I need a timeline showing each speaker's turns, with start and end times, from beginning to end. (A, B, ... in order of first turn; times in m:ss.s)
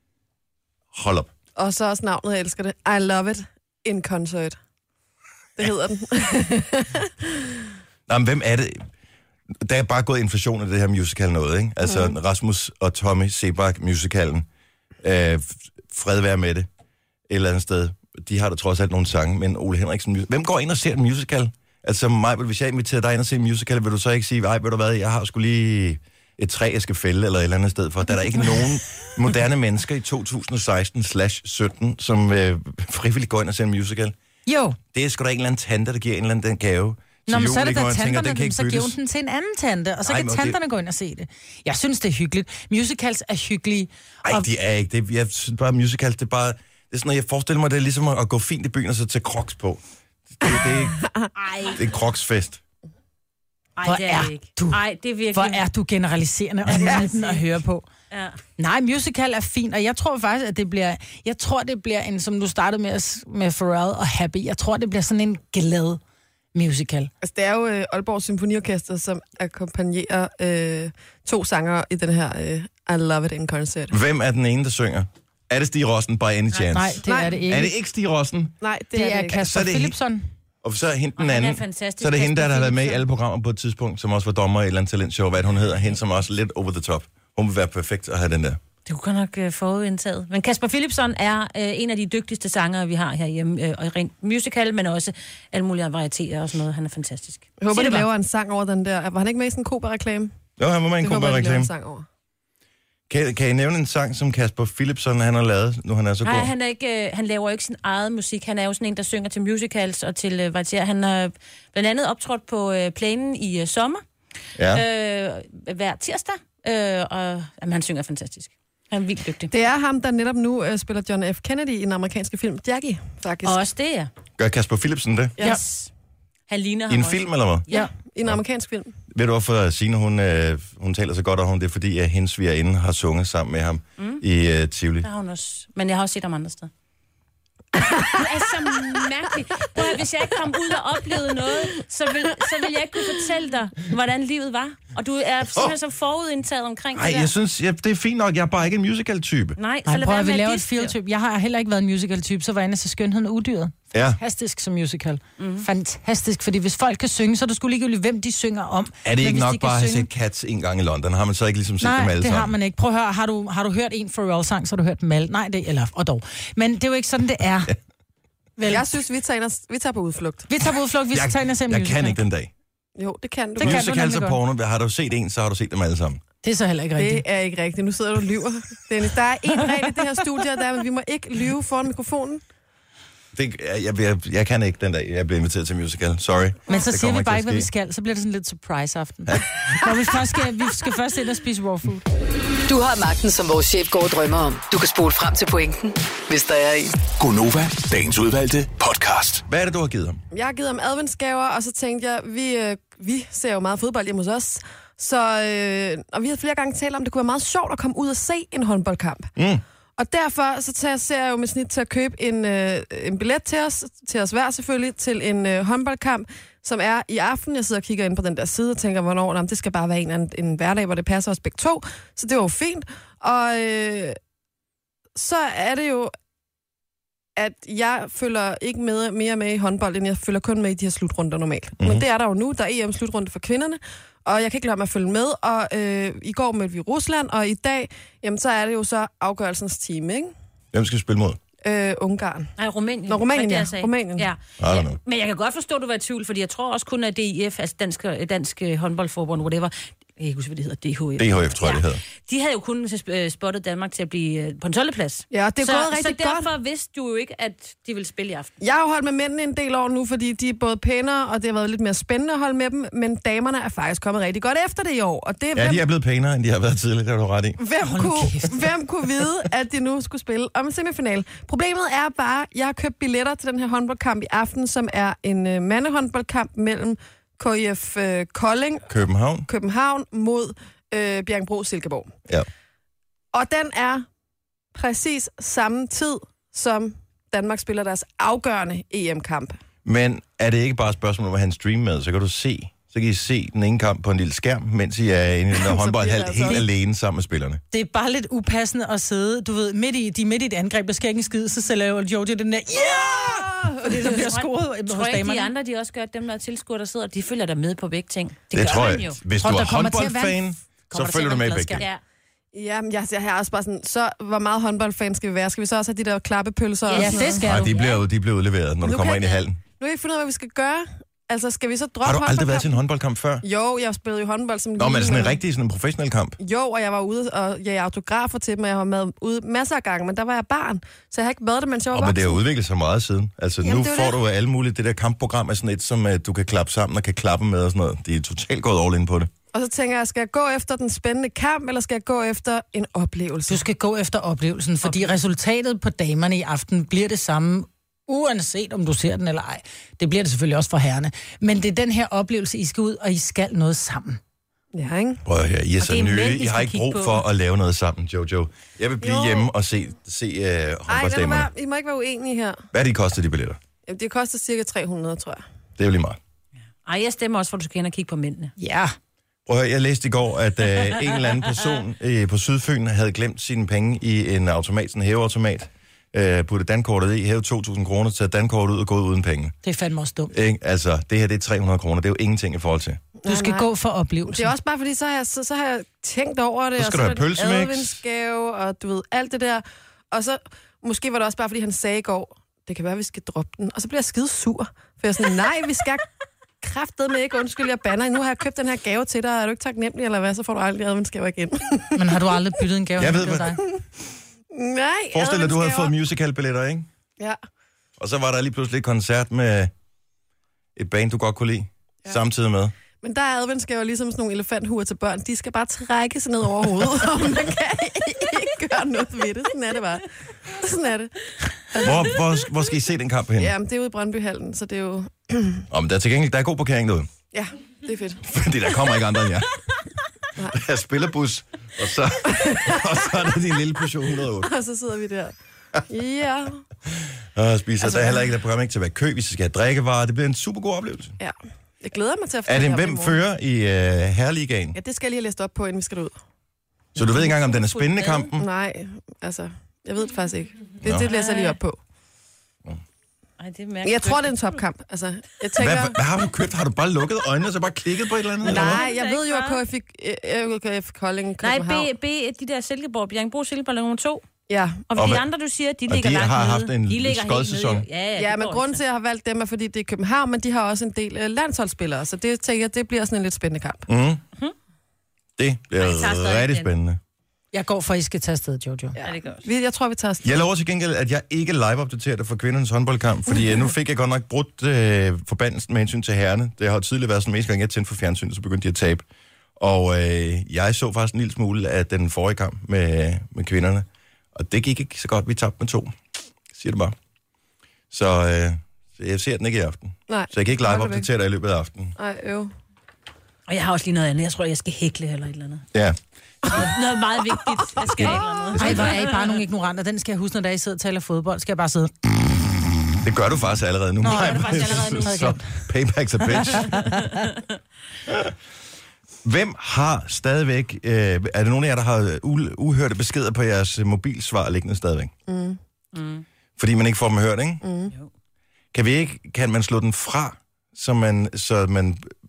0:00.9-0:01.3 A
0:01.6-0:04.6 B
0:05.6-0:07.7 B
0:08.1-0:08.9 A
0:09.6-0:14.5 A
0:11.8-0:12.1 B
0:15.0-0:16.7 A
0:17.3-0:34.1 A
0:34.4-0:34.8 C
0:34.9-0:39.0 A
0:37.3-0:44.4 C
0:40.0-0:40.6 A
0:44.2-0:49.8 A
0:50.4-0:51.0 A
0:51.0-0:51.3 B
0:51.4-0:51.8 D
0:51.7-0:52.6 A
0:53.8-0:55.6 D
0:53.8-0:54.8 C
0:55.3-0:57.8 C
0:56.6-0:57.4 D
0:58.1-0:58.4 D
0:58.6-1:06.0 C
1:06.5-1:07.1 C
1:07.2-1:13.9 B
1:13.9-1:18.6 A
1:16.7-1:17.7 C
1:17.0-1:17.4 B
1:18.6-1:19.5 B
1:18.9-1:20.2 C
1:19.4-1:20.0 A
1:20.6-1:28.6 A
1:21.2-1:23.0 D
1:28.8-1:38.1 D
1:37.6-1:40.3 B
1:40.6-1:41.7 A
1:41.0-1:42.0 B
1:43.1-1:46.5 A
1:46.2-1:54.0 D
1:54.6-1:54.8 A
1:54.7-1:59.5 D
1:59.5-2:03.6 B
2:03.4-2:04.1 D
2:04.4-2:05.4 A
2:05.4-2:05.9 D
2:06.5-2:07.9 D
2:06.9-2:07.6 A
2:07.7-2:09.0 B
2:09.1-2:15.1 A
2:15.0-2:16.7 D
2:17.8-2:18.2 B
2:18.0-2:27.3 D
2:26.9-2:29.6 A
2:29.6-2:30.9 D
2:29.8-2:40.1 C
2:33.9-2:34.2 A
2:35.4-2:35.7 D
2:39.0-2:42.5 A
2:41.8-2:47.7 C
2:48.6-2:48.9 C
2:48.6-2:50.5 B
2:50.5-2:52.2 C
2:51.1-2:52.5 A
2:53.0-2:53.9 B
2:53.6-2:54.4 C
2:53.6-2:56.2 A
2:56.4-2:57.2 C
2:57.0-3:02.4 B
3:03.3-3:07.7 A
3:06.7-3:12.0 C
3:09.3-3:09.8 A
3:12.7-3:17.0 E
3:17.1-3:19.4 F
3:19.5-3:20.2 A
3:20.3-3:29.3 B
3:29.4-3:29.6 A
3:30.0-3:44.2 B
3:45.1-3:46.1 B
3:47.4-4:00.3 B
3:51.8-3:52.0 A
4:00.7-4:01.4 A
4:01.6-4:02.5 B
4:02.6-4:18.5 D
4:03.1-4:04.3 B
4:04.6-4:05.0 A
4:11.2-4:12.0 A
4:15.3-4:16.5 B
4:18.6-4:25.8 B
4:25.5-4:27.6 A
4:27.6-4:38.9 B
4:27.8-4:28.7 C
4:38.9-4:39.5 A
4:39.5-4:42.1 B
4:43.3-4:44.0 B
4:44.7-4:49.6 B
4:49.8-4:57.6 A
4:55.5-4:56.6 B
4:57.7-5:05.5 C
5:02.9-5:04.1 B
5:04.0-5:09.2 D
5:08.5-5:11.8 A
5:09.4-5:11.8 C
5:12.5-5:17.4 B
5:16.8-5:18.0 D
5:16.9-5:17.7 C
5:17.4-5:19.6 A
5:18.8-5:22.8 B
5:22.0-5:23.4 A
5:23.4-5:25.4 B
5:24.8-5:26.4 A
5:26.4-5:32.4 B
5:31.9-5:39.3 A
5:33.6-5:34.2 B
5:39.5-5:43.6 B
5:43.5-5:54.2 C
5:54.7-5:55.2 B
5:55.2-6:01.5 A
5:55.8-5:57.2 D
5:59.0-5:59.5 B
6:00.9-6:02.6 B
6:02.7-6:03.6 A
6:03.8-6:05.4 B
6:05.8-6:06.2 A
6:06.8-6:08.5 D
6:08.6-6:08.9 C
6:09.5-6:19.6 A
6:19.6-6:20.3 C
6:20.3-6:23.0 A
6:23.2-6:23.7 B
6:23.2-6:24.5 C
6:24.2-6:36.0 B
6:26.8-6:28.0 A
6:36.6-6:42.3 B
6:41.9-6:43.6 C
6:43.0-6:43.6 A
6:44.5-6:45.9 B
6:45.1-6:46.9 A
6:48.0-6:49.7 A
6:50.8-6:52.7 A
6:53.0-7:02.2 B
7:01.8-7:03.5 A
7:03.4-7:05.6 B
7:05.7-7:07.1 A
7:07.3-7:08.2 B
7:08.2-7:09.5 A
7:10.5-7:14.5 A
7:12.2-7:13.0 B
7:14.4-7:15.4 B
7:15.9-7:16.6 B
7:17.3-7:21.2 A
7:17.8-7:18.2 B
7:21.2-7:23.2 B
7:22.5-7:24.8 A
7:24.7-7:26.2 B
7:27.0-7:28.4 A
7:27.2-7:28.3 D
7:28.4-7:31.8 B
7:31.1-7:31.6 D
7:33.4-7:34.5 D
7:33.8-7:36.0 B
7:35.6-7:38.8 A
7:38.4-7:41.9 B
7:38.4-7:39.6 D
7:41.4-7:44.2 D
7:44.5-7:44.9 B
7:44.9-7:48.8 D
7:45.0-7:45.2 A
7:45.9-7:47.8 A
7:48.2-7:53.9 B
7:53.9-7:54.2 A
7:55.4-7:57.0 A
7:55.8-7:56.7 D
7:57.5-7:59.0 C
7:59.0-8:00.4 B
7:59.0-7:59.4 D
8:00.2-8:09.0 A
8:09.6-8:15.9 A
8:16.5-8:16.9 A
8:17.9-8:21.9 A
8:20.1-8:21.1 B
8:22.0-8:22.5 B
8:23.5-8:25.6 D
8:26.4-8:29.4 D
8:27.4-8:28.6 B
8:28.6-8:31.9 C
8:33.0-8:36.8 A
8:34.0-8:35.6 C
8:34.0-8:35.3 D
8:36.3-8:37.3 C
8:36.7-8:37.3 D
8:38.1-8:38.3 A
8:39.2-8:45.1 A
8:45.3-8:45.6 B
8:45.9-8:46.2 D
8:46.6-8:47.6 A
8:47.6-8:47.9 B
8:48.7-8:52.1 A